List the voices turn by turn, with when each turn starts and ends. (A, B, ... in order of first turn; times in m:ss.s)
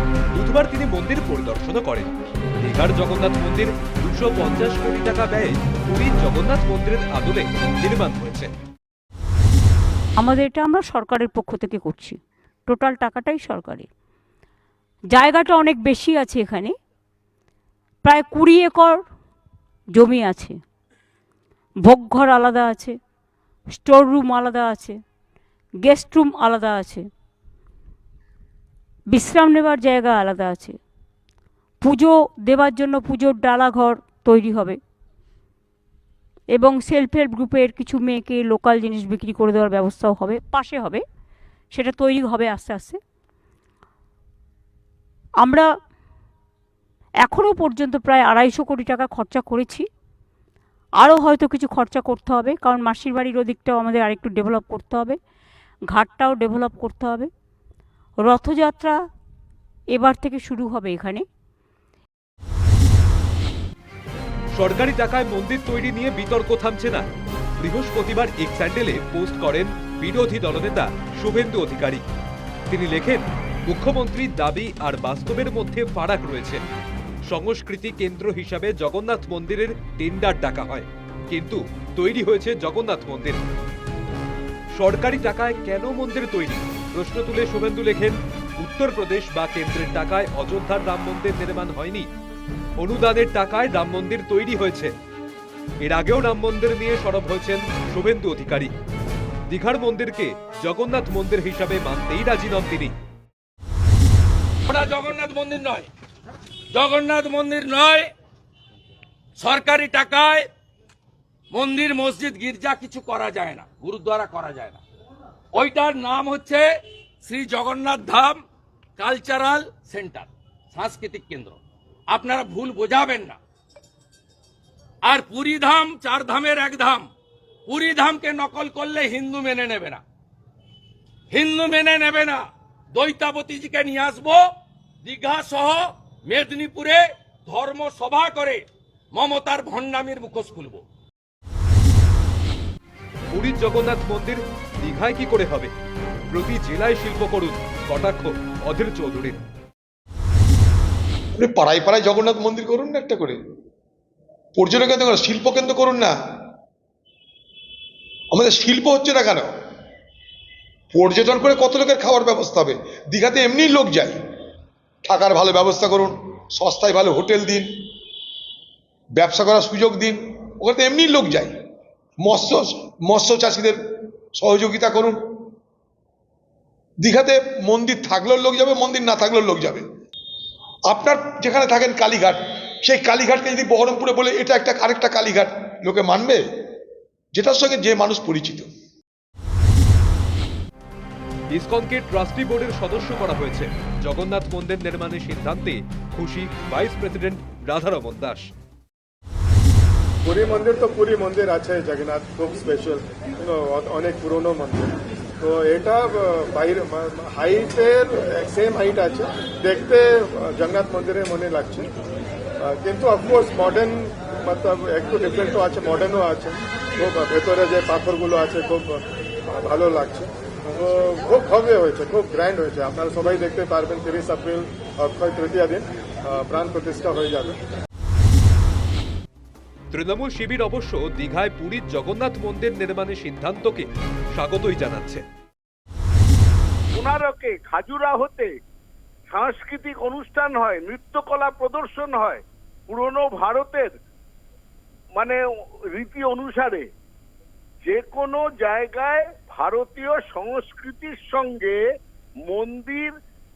0:00.3-0:08.5 A
0:10.2-0:13.9 B
0:15.1-0:16.7 B
0:18.0-0:19.0 B
0:19.9-0:20.6 B
0:21.8-0:23.0 B
0:23.7-0:25.0 B
0:25.8-0:27.0 B
0:29.1-0:30.7 B
0:31.8-0:34.8 B
0:36.5-0:41.0 B
0:41.7-0:43.0 B
0:45.4-0:45.7 B
0:47.2-0:49.8 B
0:51.0-0:55.2 B
0:55.9-0:57.3 B
0:58.2-0:59.0 B
0:59.9-1:01.2 B
1:04.6-1:07.0 A
1:07.6-1:12.0 A
1:12.7-1:16.6 A
1:17.3-1:23.4 A
1:24.8-1:32.1 A
1:32.8-1:34.9 A
1:35.8-1:38.7 A
1:39.5-1:42.9 A
1:44.7-1:45.9 C
1:46.7-1:48.1 C
1:49.4-1:50.5 C
1:51.5-1:54.8 C
1:55.5-1:56.7 C
1:57.2-1:58.4 C
1:59.0-2:03.4 C
2:05.0-2:07.1 C
2:07.7-2:10.0 C
2:11.3-2:14.4 C
2:15.0-2:20.8 C
2:23.3-2:25.7 A
2:26.3-2:29.4 A
2:31.4-2:33.4 D
2:34.6-2:36.1 D
2:38.3-2:39.5 D
2:40.9-2:44.2 D
2:45.0-2:47.7 D
2:49.2-2:51.5 D
2:52.2-2:53.8 D
2:54.3-2:55.2 D
2:57.0-2:59.8 D
3:00.9-3:06.4 D
3:07.3-3:08.7 D
3:11.5-3:18.5 A
3:20.2-3:31.9 E
3:32.6-3:47.6 E
3:49.9-3:55.2 A
3:56.9-3:58.5 F
3:59.3-4:03.9 F
4:05.1-4:05.4 F
4:05.9-4:06.8 F
4:07.8-4:11.8 F
4:12.5-4:13.1 F